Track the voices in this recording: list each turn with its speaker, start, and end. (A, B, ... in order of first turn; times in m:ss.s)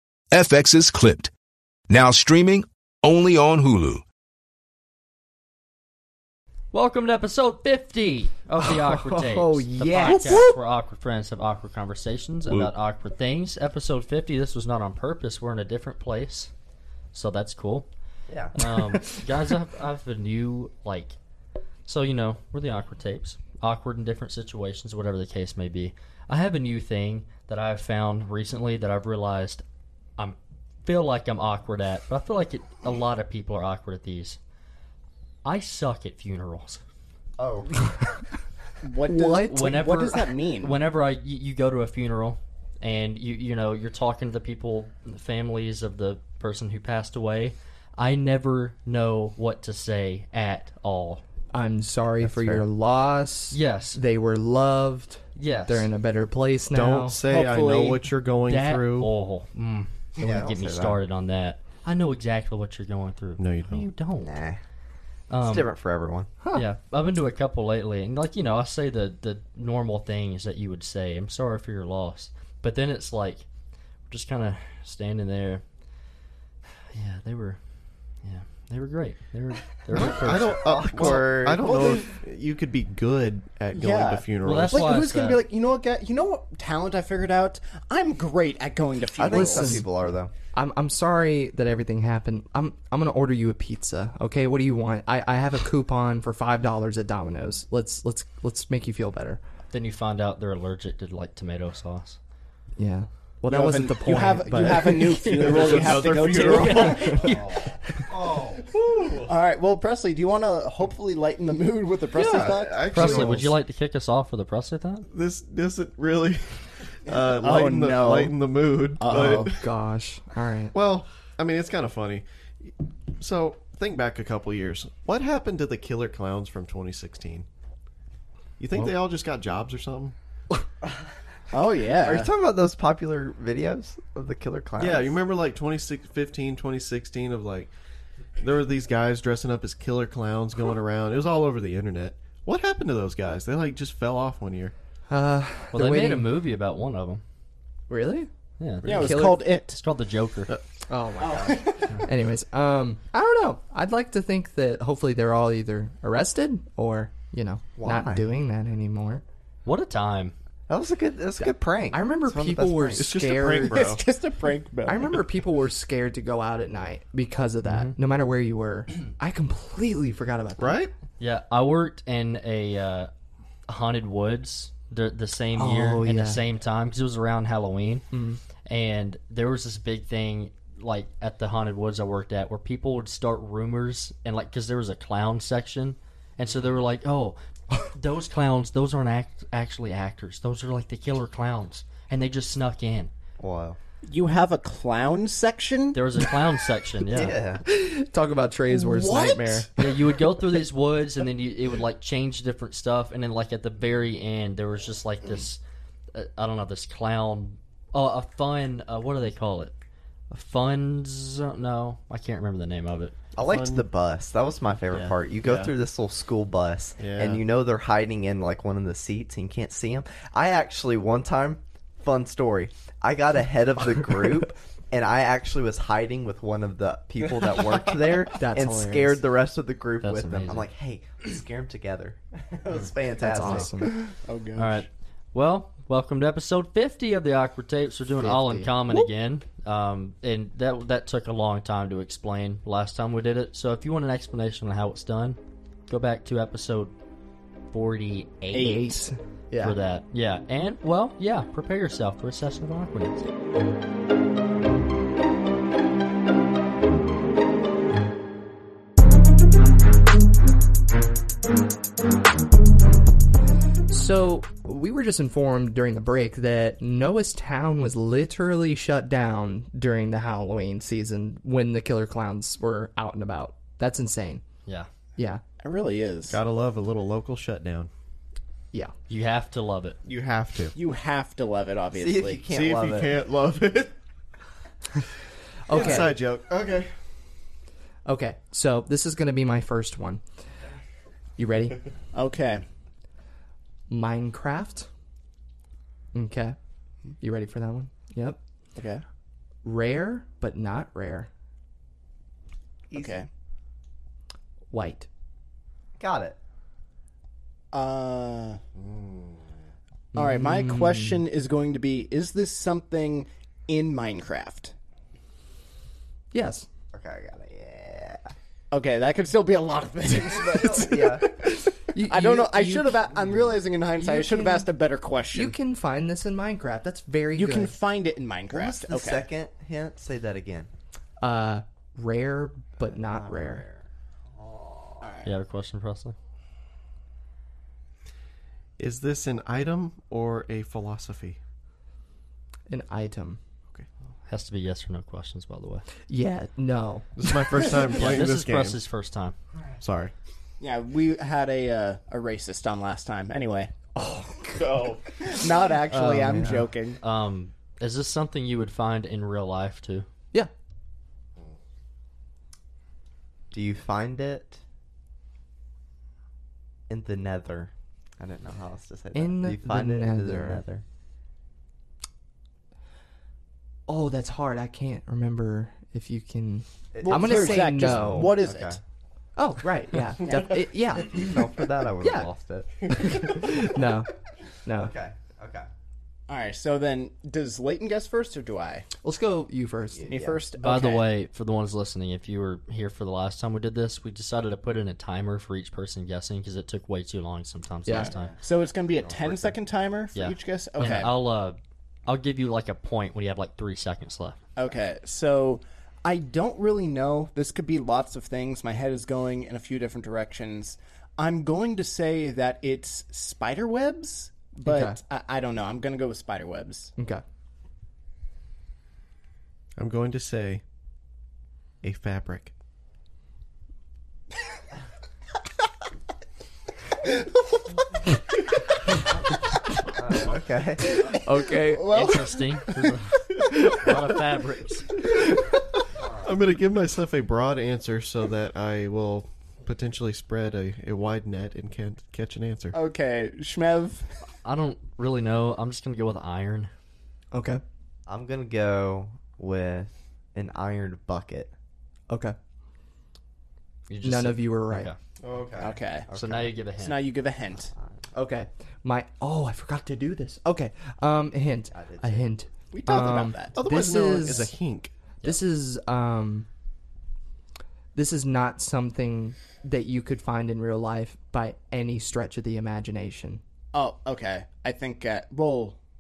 0:00.3-0:01.3 A
0:01.9-0:04.0 A
0:06.7-0:16.5 B
0:09.3-0:10.5 C
0:09.8-0:10.4 D
0:17.1-0:17.9 B
0:18.3-0:18.7 D
0:18.6-0:21.2 B
0:21.9-0:29.6 B
0:30.2-0:34.4 B
0:35.4-0:36.8 B
0:37.4-0:37.7 D
0:38.8-0:40.8 E
0:39.0-0:39.8 C
0:39.4-0:51.2 B
0:51.5-0:57.2 C
0:52.2-0:52.6 F
0:53.5-0:54.0 B
0:55.4-0:55.9 B
0:56.7-0:59.1 F
0:57.2-0:58.0 E
0:58.5-1:04.4 B
1:00.2-1:01.0 D
1:03.4-1:03.9 F
1:04.2-1:04.6 D
1:05.3-1:05.7 B
1:05.4-1:06.3 D
1:06.5-1:13.4 B
1:14.1-1:15.6 B
1:16.9-1:17.6 B
1:18.2-1:20.6 B
1:19.9-1:25.0 F
1:20.4-1:21.9 D
1:21.6-1:22.1 E
1:23.7-1:29.8 E
1:24.4-1:25.5 B
1:29.2-1:30.3 D
1:29.3-1:29.9 C
1:30.5-1:39.4 C
1:39.7-1:42.2 B
1:42.8-1:45.6 C
1:43.5-1:47.3 E
1:45.1-1:47.3 F
1:45.6-1:47.7 B
1:47.0-1:47.2 C
1:48.1-1:48.7 D
1:49.0-1:49.3 F
1:49.1-1:53.3 E
1:52.1-1:53.6 F
1:52.9-1:55.1 B
1:55.1-1:59.6 F
1:57.1-1:58.4 E
1:59.0-1:59.5 E
1:59.4-2:00.7 C
2:00.7-2:07.5 F
2:08.6-2:10.2 F
2:11.5-2:12.3 E
2:12.0-2:15.2 D
2:14.8-2:17.7 F
2:18.4-2:24.7 F
2:25.1-2:26.3 C
2:25.7-2:27.2 B
2:27.9-2:28.3 C
2:28.6-2:30.5 B
2:28.8-2:29.1 F
2:28.8-2:29.4 C
2:28.9-2:29.8 E
2:30.9-2:39.2 C
2:31.2-2:32.0 E
2:37.8-2:38.3 D
2:39.6-2:40.3 B
2:40.7-2:43.1 D
2:41.4-2:44.0 C
2:43.0-2:44.0 F
2:43.7-2:45.1 E
2:44.9-2:50.9 C
2:47.6-2:47.9 B
2:50.6-2:50.9 F
2:51.2-2:53.1 B
2:53.7-2:58.0 B
2:55.6-2:56.4 C
2:58.1-2:58.4 C
2:58.7-3:13.1 B
3:13.4-3:13.8 D
3:14.1-3:16.0 E
3:15.9-3:17.4 B
3:17.0-3:17.6 D
3:17.6-3:19.7 C
3:18.9-3:19.4 E
3:19.8-3:25.6 B
3:26.1-3:29.8 B
3:30.3-3:33.1 B
3:33.4-3:53.9 D
3:33.4-3:33.9 F
3:34.9-3:35.7 F
3:37.0-3:37.4 F
3:48.4-3:49.2 C
3:50.0-3:50.7 B
3:53.2-3:53.9 C
3:53.9-3:54.9 E
3:54.6-4:06.9 B
3:58.2-3:58.7 C
4:07.7-4:09.0 B
4:08.5-4:09.8 C
4:09.6-4:13.3 B
4:23.9-4:34.4 C
4:35.2-4:35.4 C
4:35.6-4:36.4 E
4:36.3-4:37.9 F
4:39.1-4:40.0 B
4:40.0-4:40.8 F
4:40.8-4:42.4 E
4:41.9-4:43.2 D
4:42.5-4:43.9 F
4:45.7-4:46.2 C
4:45.7-4:46.9 F
4:48.0-4:50.2 C
4:51.4-4:51.8 C
4:52.1-4:52.6 E
4:53.9-4:54.9 C
4:56.1-4:56.6 C
4:57.2-4:58.4 C
4:58.8-4:59.0 E
4:59.6-5:01.3 C
5:02.9-5:03.3 E
5:04.7-5:05.1 C
5:06.0-5:06.4 D
5:07.7-5:08.6 E
5:10.1-5:11.2 C
5:10.2-5:14.7 E
5:16.3-5:16.7 C
5:16.9-5:18.3 D
5:18.7-5:25.6 E
5:20.1-5:21.4 D
5:21.5-5:23.1 C
5:24.0-5:24.7 C
5:25.3-5:27.8 C
5:27.4-5:29.3 E
5:28.5-5:30.7 D
5:31.2-5:33.7 C
5:32.9-5:35.1 D
5:35.0-5:35.3 E
5:35.2-5:36.2 B
5:38.8-5:41.4 F
5:42.7-5:43.4 C
5:44.3-5:45.9 B
5:46.1-5:47.1 C
5:47.2-5:48.8 F
5:48.0-5:49.4 B
5:49.8-5:50.1 F
5:50.6-5:53.7 E
5:54.0-5:54.8 C
5:54.6-5:55.0 F
5:55.2-5:57.0 E
5:55.9-5:56.7 C
5:57.0-6:00.1 B
6:03.5-6:04.6 D
6:06.9-6:10.8 D
6:09.1-6:10.6 C
6:13.9-6:18.4 C
6:16.9-6:18.8 D
6:17.0-6:18.8 E
6:19.4-6:21.3 C
6:21.0-6:22.7 D
6:22.0-6:22.3 C
6:22.9-6:24.1 C
6:24.6-6:24.9 C
6:24.8-6:25.7 D
6:26.3-6:28.9 E
6:29.0-6:30.1 C
6:29.9-6:30.4 D
6:30.1-6:31.1 E
6:30.6-6:38.3 B
6:37.9-6:38.1 C
6:37.9-6:39.6 D
6:37.9-6:41.1 E
6:40.2-6:44.4 B
6:44.6-6:56.9 E
6:54.6-6:55.0 C
6:57.0-6:57.2 C
6:59.8-7:00.6 F
7:01.8-7:02.5 F
7:09.9-7:11.1 D
7:10.9-7:12.1 C
7:10.9-7:12.5 E
7:11.9-7:15.0 B
7:13.4-7:14.0 C
7:16.0-7:16.4 D
7:16.2-7:22.8 F
7:22.7-7:24.1 E
7:24.4-7:26.7 B
7:27.3-7:27.6 C
7:28.1-7:31.5 D
7:32.1-7:32.4 C
7:33.9-7:35.0 B
7:34.0-7:34.9 C
7:35.2-7:36.6 D
7:35.6-7:36.1 E
7:36.1-7:37.0 B
7:36.8-7:37.7 E
7:37.6-7:38.1 D
7:38.1-7:44.6 C
7:41.7-7:42.3 D
7:42.7-7:43.6 E
7:42.9-7:44.9 F
7:45.2-7:46.5 C
7:48.0-7:53.4 C
7:53.7-7:55.8 E